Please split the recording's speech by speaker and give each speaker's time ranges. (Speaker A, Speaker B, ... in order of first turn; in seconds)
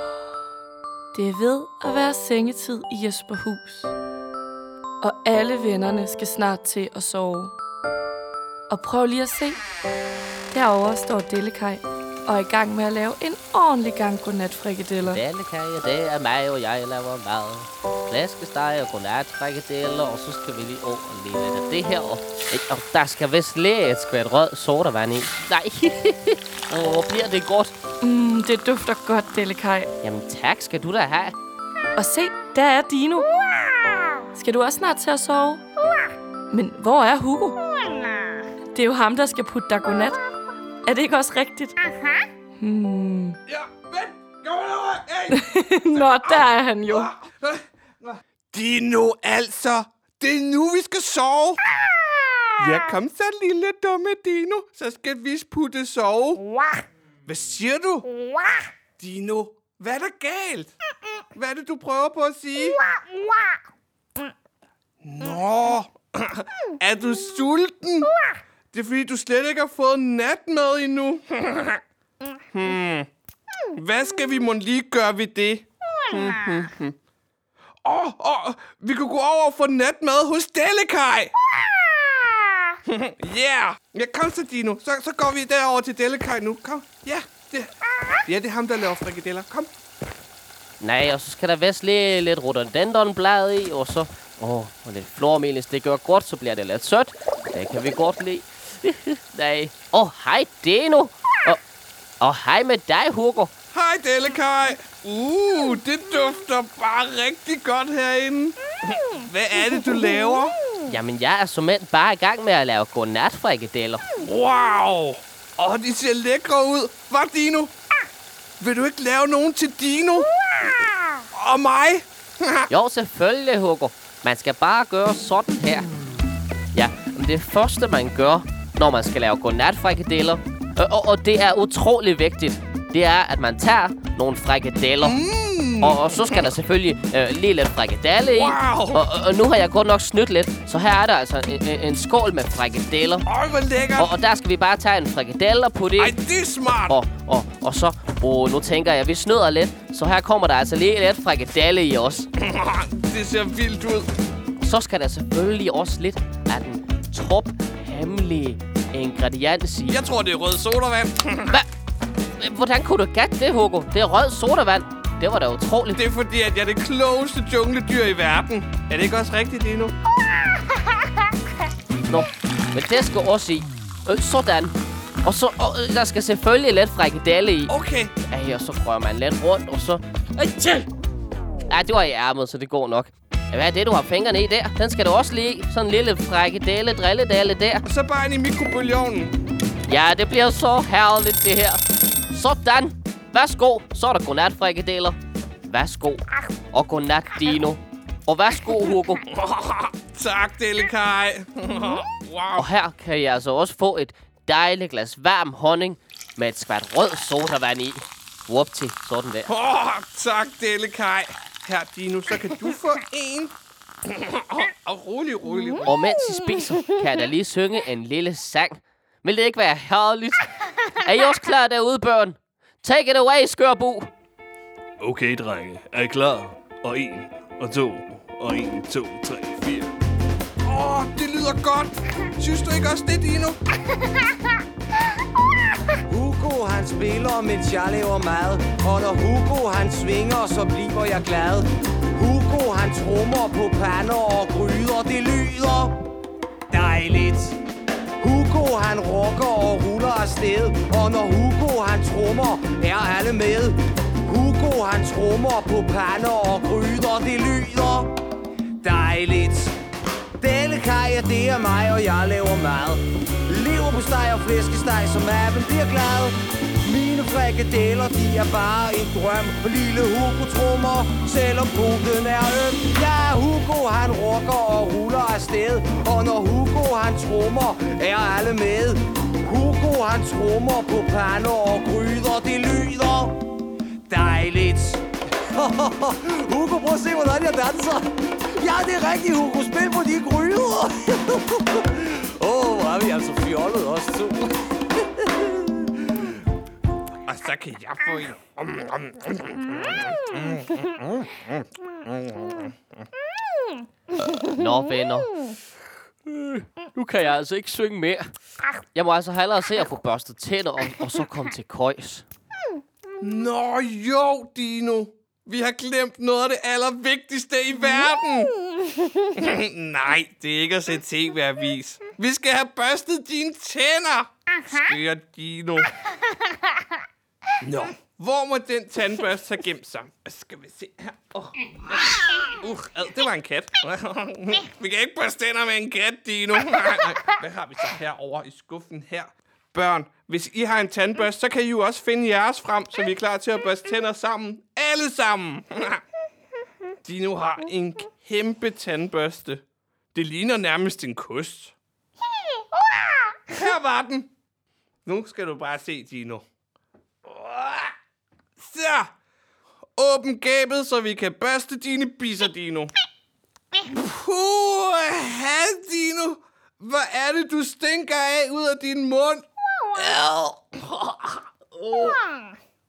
Speaker A: 1.1-3.9, 5.0-7.5, 8.7-9.6, 10.5-15.2, 28.0-29.9, 32.0-33.3, 34.3-35.6, 36.5-37.6, 38.7-40.2, 40.9-41.8, 42.6-43.4, 45.3-47.1
Speaker B: 15.0-27.7, 30.0-31.3, 90.8-101.6, 102.2-103.5, 110.9-114.0, 122.7-125.9, 126.7-135.2, 135.8-143.2, 143.9-146.2, 146.9-152.3, 154.6-160.0, 162.4-166.0, 172.1-177.7, 178.3-180.9, 181.7-187.8, 189.9-199.2, 202.6-209.5, 215.8-224.1, 304.4-305.3, 306.3-308.3, 308.9-312.2
Speaker C: 43.5-51.6, 52.6-56.5, 57.2-58.1, 59.0-60.7, 61.3-62.8, 65.0-68.1, 68.7-71.8, 72.5-73.1, 73.7-76.9, 77.8-81.3, 82.8-87.7, 88.2-89.7, 103.7-110.5, 114.2-117.7, 118.6-120.3, 121.3-122.7, 135.0-136.5, 138.3-139.0, 143.2-144.1, 146.0-147.0, 152.4-154.1, 159.9-161.6, 165.9-169.9, 177.7-178.1, 187.8-189.3, 199.3-202.7, 209.5-216.0, 225.0-229.9, 230.6-233.6, 297.2-300.9, 302.3-302.7, 313.2-318.5, 319.2-325.9, 327.6-346.0, 347.0-349.6, 350.1-351.7, 353.5-354.3, 355.1-356.4, 357.2-357.9, 358.6-359.1, 360.0-362.9, 363.9-372.2
Speaker D: 236.1-245.9, 246.7-247.6, 248.2-258.1, 258.8-259.7, 260.4-283.4, 284.1-296.1